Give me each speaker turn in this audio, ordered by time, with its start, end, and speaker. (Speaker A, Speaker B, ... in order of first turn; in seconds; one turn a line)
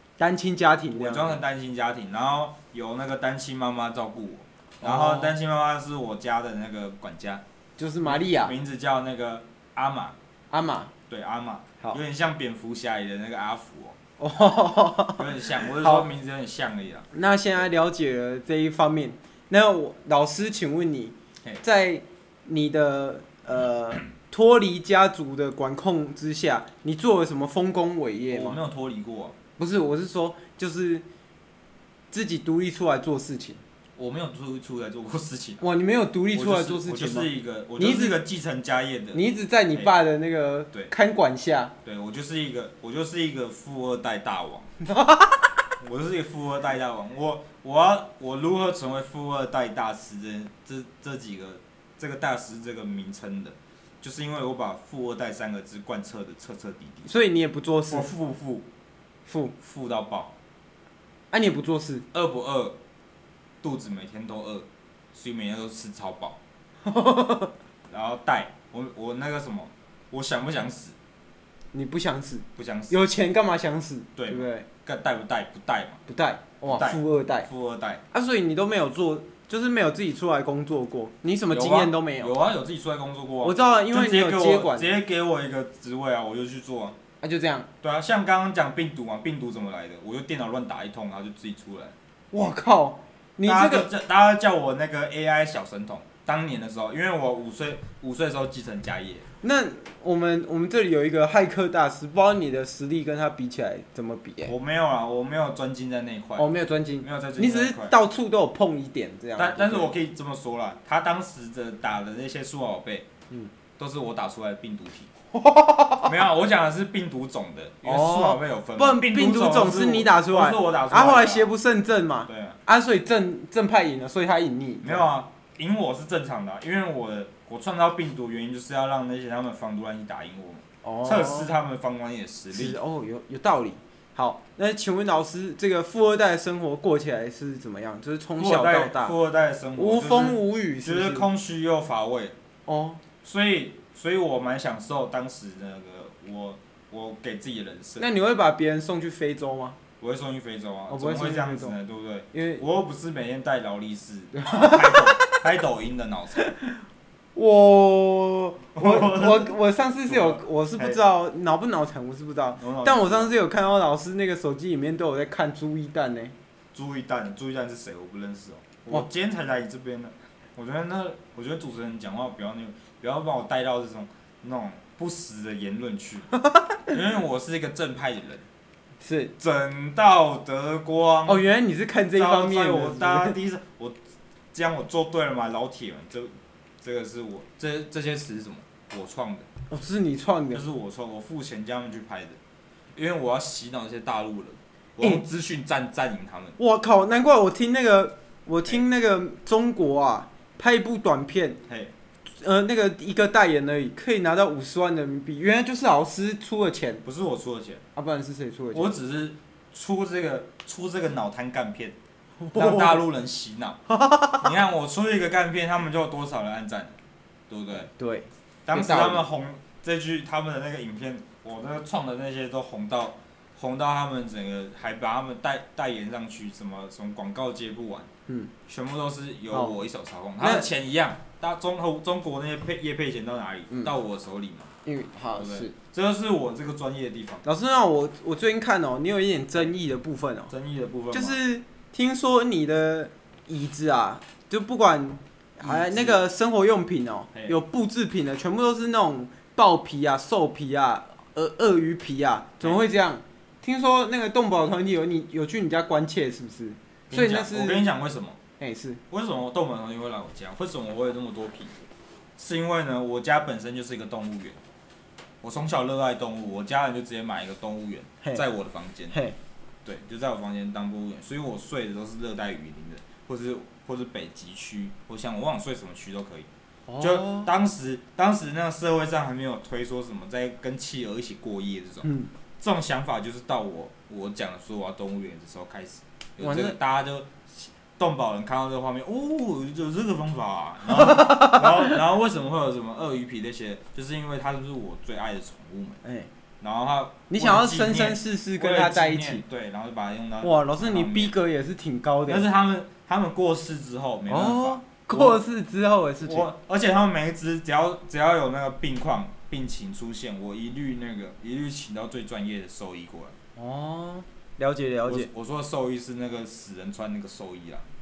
Speaker A: 0.2-1.4
Speaker B: 0.9-7.4
Speaker A: 4.8-5.3
Speaker A: 7.8-8.6
Speaker B: 8.0-10.2
Speaker A: 10.5-10.9
Speaker B: 11.1-14.0
Speaker A: 14.2-16.1
Speaker B: 15.2-17.1
Speaker A: 17.1-28.6
Speaker B: 28.3-29.4
Speaker A: 29.6-31.0
Speaker A: 32.1-33.6
Speaker B: 34.0-35.6
Speaker A: 35.6-38.2
Speaker B: 36.3-39.9
Speaker A: 39.1-41.7
Speaker B: 41.8-44.7
Speaker A: 44.8-45.5
Speaker B: 45.8-57.1
Speaker A: 57.1-58.1
Speaker B: 57.9-58.7
Speaker A: 59.3-59.5
Speaker B: 59.6-60.3
Speaker A: 61.3-62.0
Speaker B: 62.1-62.8
Speaker B: 63.6-66.4
Speaker A: 66.8-67.5
Speaker B: 67.9-71.0
Speaker A: 71.7-74.7
Speaker B: 72.6-73.0
Speaker B: 74.2-76.0
Speaker A: 76.1-77.5
Speaker B: 76.7-78.0
Speaker A: 78.1-82.3
Speaker B: 81.5-87.0
Speaker A: 83.4-84.9
Speaker A: 87.2-87.7
Speaker B: 87.8-92.0
Speaker A: 92.3-93.9
Speaker B: 93.5-99.3
Speaker A: 99.4-104.5
Speaker B: 104.4-106.5
Speaker A: 106.4-109.9
Speaker B: 107.0-108.0
Speaker B: 109.4-113.1
Speaker B: 113.8-115.1
Speaker A: 115.3-116.1
Speaker B: 116.0-121.5
Speaker A: 117.8-125.1
Speaker B: 122.3-122.6
Speaker B: 124.8-132.8
Speaker A: 130.8-131.5
Speaker A: 132.5-139.2
Speaker B: 138.4-142.4
Speaker A: 139.8-141.3
Speaker A: 142.7-143.0
Speaker B: 143.2-148.1
Speaker A: 148.0-149.8
Speaker B: 150.0-156.5
Speaker A: 150.9-151.8
Speaker A: 152.3-152.6
Speaker A: 154.3-155.4
Speaker A: 156.4-156.8
Speaker A: 157.3-166.3
Speaker B: 158.8-159.5
Speaker B: 160.1-161.0
Speaker B: 162.6-163.3
Speaker B: 166.7-176.3
Speaker B: 176.9-178.5
Speaker A: 179.0-179.3
Speaker B: 179.4-181.4
Speaker A: 181.3-183.4
Speaker B: 182.1-184.0
Speaker B: 184.5-189.5
Speaker A: 189.7-190.6
Speaker B: 190.5-192.4
Speaker B: 192.9-196.6
Speaker A: 196.6-201.6
Speaker B: 201.7-201.9
Speaker A: 202.4-207.0
Speaker B: 207.0-207.8
Speaker A: 207.9-208.9
Speaker B: 208.7-212.0
Speaker A: 212.4-213.1
Speaker B: 212.5-213.8
Speaker A: 213.9-214.4
Speaker B: 214.3-217.0
Speaker B: 217.5-217.9
Speaker A: 217.9-219.3
Speaker B: 218.7-228.1
Speaker B: 228.7-234.7
Speaker A: 230.4-230.7
Speaker A: 234.8-235.8
Speaker B: 235.3-237.4
Speaker A: 237.4-240.5
Speaker B: 240.5-241.4
Speaker A: 241.1-257.9
Speaker B: 245.6-246.2
Speaker B: 257.1-258.4
Speaker A: 258.6-259.0
Speaker B: 259.1-261.8
Speaker B: 262.4-264.6
Speaker B: 265.4-269.2
Speaker A: 269.1-269.4
Speaker B: 269.8-276.5
Speaker A: 276.9-277.5
Speaker B: 277.0-282.1
Speaker A: 282.0-282.3
Speaker B: 282.6-296.0
Speaker A: 286.4-286.8
Speaker A: 291.0-291.9
Speaker A: 296.0-296.3
Speaker B: 296.6-301.4
Speaker A: 297.3-299.4
Speaker A: 300.4-302.4
Speaker B: 302.3-305.4
Speaker A: 304.3-306.5
Speaker B: 306.2-313.4
Speaker A: 313.6-315.3
Speaker B: 315.1-317.9